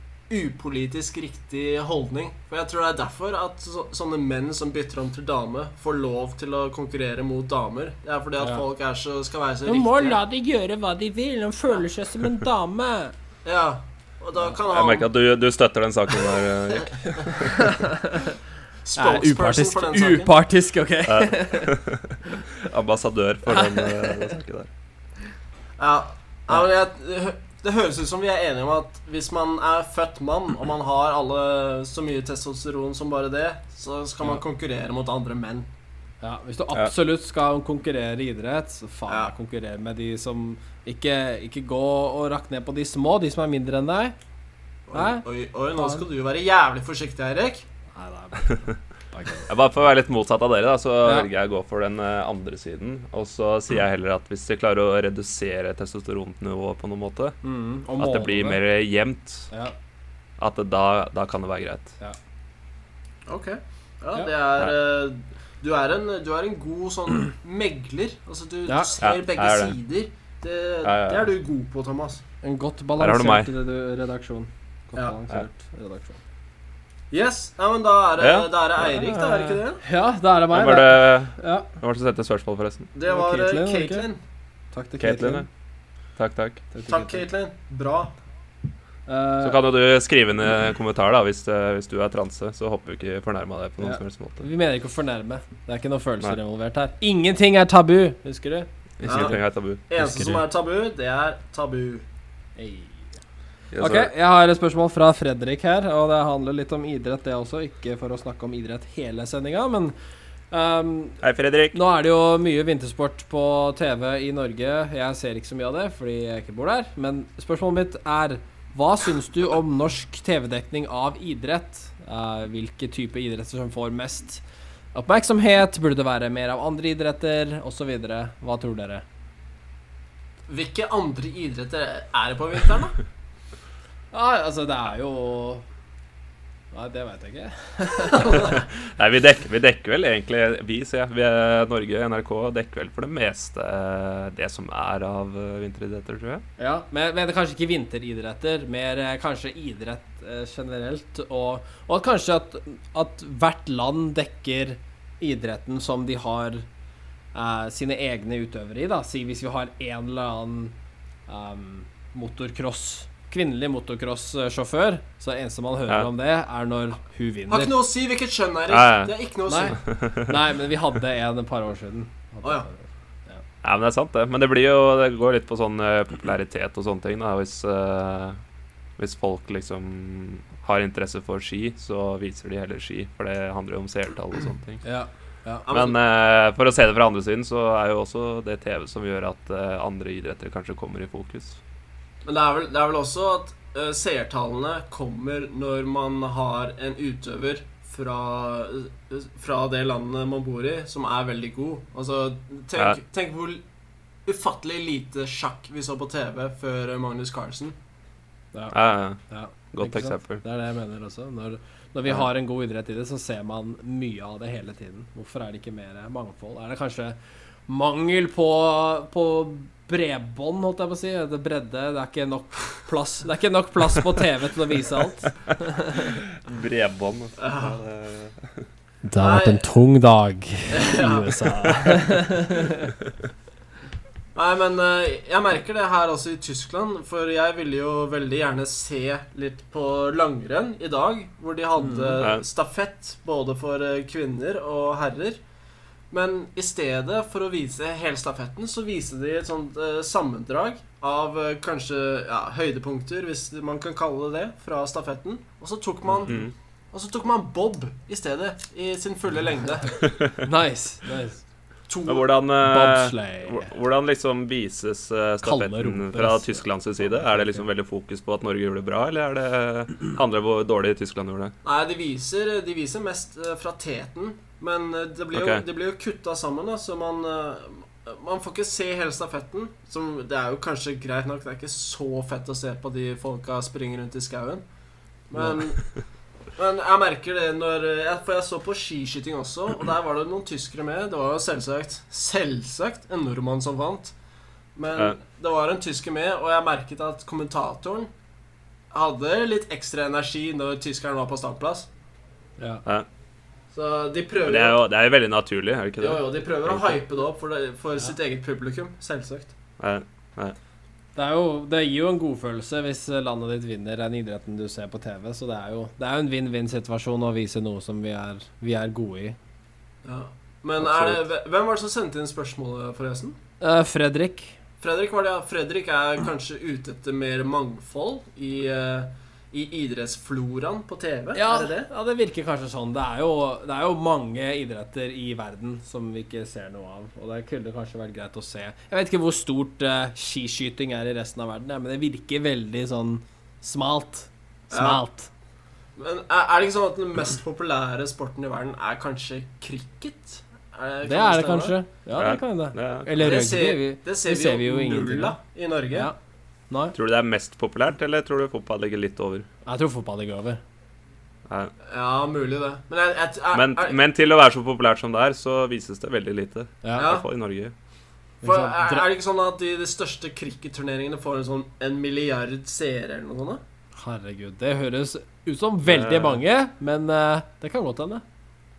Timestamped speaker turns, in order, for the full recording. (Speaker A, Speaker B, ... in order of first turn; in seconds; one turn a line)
Speaker A: 0.3-10.2
Speaker B: 9.7-13.1
Speaker A: 13.4-15.1
Speaker C: 14.7-17.5
Speaker B: 17.3-18.3
Speaker A: 18.8-20.3
Speaker B: 18.9-21.8
Speaker C: 21.1-24.7
Speaker B: 23.5-24.2
Speaker A: 25.8-35.7
Speaker B: 36.2-44.1
Speaker A: 44.9-47.6
Speaker B: 44.9-45.2
Speaker B: 45.7-46.0
Speaker B: 47.9-49.5
Speaker C: 49.5-57.4
Speaker B: 51.0-51.3
Speaker B: 57.4-58.6
Speaker C: 58.0-59.5
Speaker C: 60.4-61.9
Speaker A: 63.3-72.2
Speaker B: 68.7-68.9
Speaker C: 69.0-69.8
Speaker C: 70.8-71.2
Speaker B: 72.4-76.2
Speaker C: 73.0-73.5
Speaker A: 77.1-79.8
Speaker C: 78.2-79.6
Speaker B: 79.8-81.7
Speaker C: 80.5-82.9
Speaker A: 82.9-84.2
Speaker B: 83.1-84.1
Speaker B: 84.7-85.5
Speaker C: 85.0-85.5
Speaker C: 86.2-86.6
Speaker B: 86.7-87.2
Speaker A: 86.9-88.1
Speaker B: 89.1-89.6
Speaker C: 89.4-94.4
Speaker B: 93.8-99.4
Speaker C: 99.0-99.8
Speaker A: 99.0-102.0
Speaker B: 100.0-100.4
Speaker B: 102.6-103.1
Speaker C: 103.7-104.1
Speaker B: 103.8-109.9
Speaker B: 110.5-111.2
Speaker C: 111.2-111.8
Speaker B: 111.7-124.4
Speaker B: 124.9-129.0
Speaker A: 130.5-133.0
Speaker B: 134.1-135.6
Speaker B: 136.7-138.6
Speaker C: 138.3-146.4
Speaker B: 146.6-156.7
Speaker B: 157.3-160.7
Speaker B: 161.3-167.7
Speaker A: 167.5-169.8
Speaker C: 168.7-169.1
Speaker B: 169.5-173.4
Speaker C: 169.8-170.4
Speaker A: 172.4-172.7
Speaker C: 173.6-178.4
Speaker C: 179.0-184.8
Speaker B: 184.8-185.6
Speaker A: 185.7-186.0
Speaker C: 185.7-191.6
Speaker A: 192.2-203.6
Speaker A: 204.2-207.7
Speaker B: 208.5-217.2
Speaker C: 208.7-209.2
Speaker C: 209.7-210.4
Speaker B: 217.7-226.2
Speaker C: 226.0-228.7
Speaker A: 227.4-227.8
Speaker B: 229.0-232.9
Speaker A: 229.2-229.7
Speaker A: 230.7-232.1
Speaker A: 234.3-245.4
Speaker B: 241.8-242.2
Speaker C: 242.2-242.4
Speaker A: 246.1-260.0
Speaker C: 256.2-256.5
Speaker C: 260.0-260.4
Speaker B: 260.4-261.4
Speaker A: 261.9-262.3
Speaker C: 262.1-271.5
Speaker B: 262.6-263.7
Speaker B: 265.4-266.6
Speaker A: 271.6-284.6
Speaker C: 275.3-275.6
Speaker A: 285.3-285.8
Speaker C: 285.4-285.6
Speaker A: 286.6-294.1
Speaker A: 294.8-298.1
Speaker A: 298.9-301.9
Speaker B: 302.6-302.8
Speaker A: 303.7-304.8
Speaker C: 304.4-307.0
Speaker A: 306.0-309.5
Speaker C: 309.8-310.6
Speaker B: 311.1-319.4
Speaker A: 320.0-323.4
Speaker C: 320.8-321.2
Speaker B: 323.6-324.5
Speaker A: 324.8-331.9
Speaker B: 331.3-345.3
Speaker A: 344.7-345.0
Speaker A: 346.0-351.8
Speaker B: 351.0-355.4
Speaker C: 352.1-353.1
Speaker A: 353.2-356.1
Speaker B: 356.7-356.9
Speaker C: 356.9-359.5
Speaker B: 359.6-360.6
Speaker A: 361.9-364.0
Speaker C: 363.5-367.7
Speaker B: 366.8-367.1
Speaker A: 367.0-367.2
Speaker B: 368.4-369.1
Speaker A: 368.4-373.6
Speaker B: 374.0-378.2
Speaker C: 375.8-376.4